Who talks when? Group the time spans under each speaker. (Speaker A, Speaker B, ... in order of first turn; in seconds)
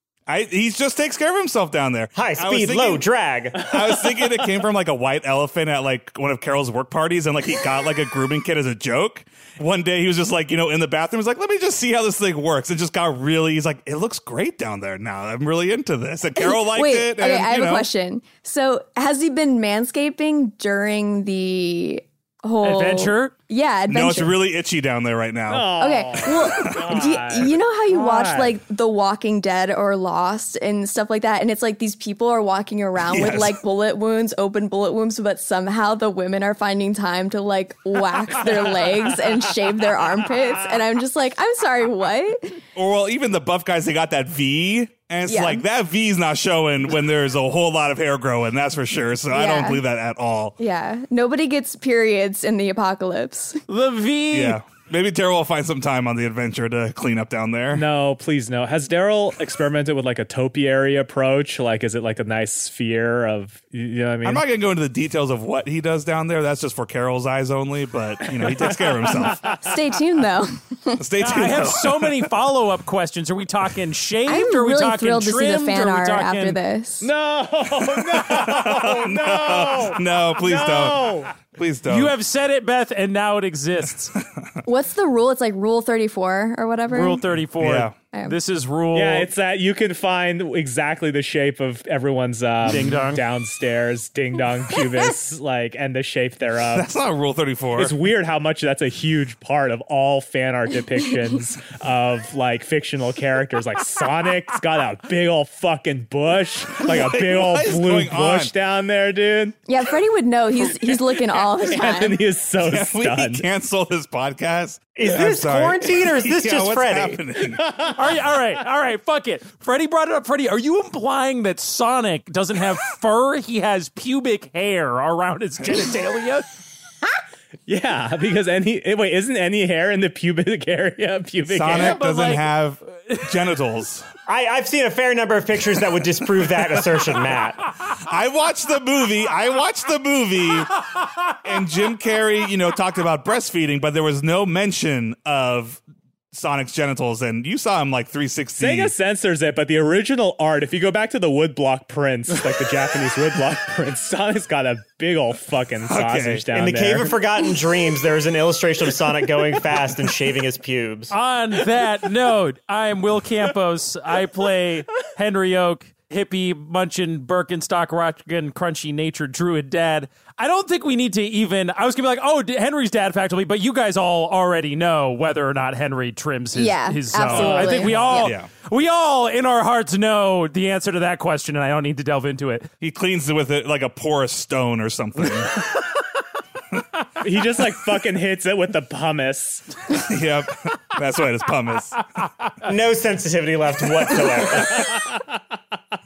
Speaker A: 0.3-3.1, 3.6-17.9, 23.9-25.8, 33.1-33.6, 42.8-50.5, 54.3-57.9, 64.2-69.6, 71.0-72.3, 78.1-82.2, 87.6-88.0, 96.7-98.0, 106.8-108.5, 112.6-117.9, 131.5-134.1, 138.0-140.8, 141.4-145.8, 146.3-148.9, 155.9-156.5, 177.2-178.5, 182.8-185.6, 190.0-192.0
Speaker B: 2.2-3.7, 115.0-117.2, 134.3-137.7, 156.5-161.1, 192.6-195.0
Speaker C: 16.4-24.4, 25.8-42.6, 45.3-45.6, 49.3-49.8, 50.6-53.6, 69.6-71.0, 74.3-77.1, 84.7-87.2, 109.7-112.2, 176.5-178.3
Speaker D: 22.6-23.3, 53.7-54.6, 71.3-76.6, 81.9-84.2, 86.9-89.3, 92.7-93.2, 117.9-126.5, 131.7-132.5, 161.1-182.7
Speaker E: 25.5-28.5, 57.7-64.4, 69.2-69.6, 77.0-81.3, 88.9-96.9, 97.8-109.6, 111.6-113.5, 127.7-132.0, 148.6-157.1, 177.3-178.1, 187.2-189.7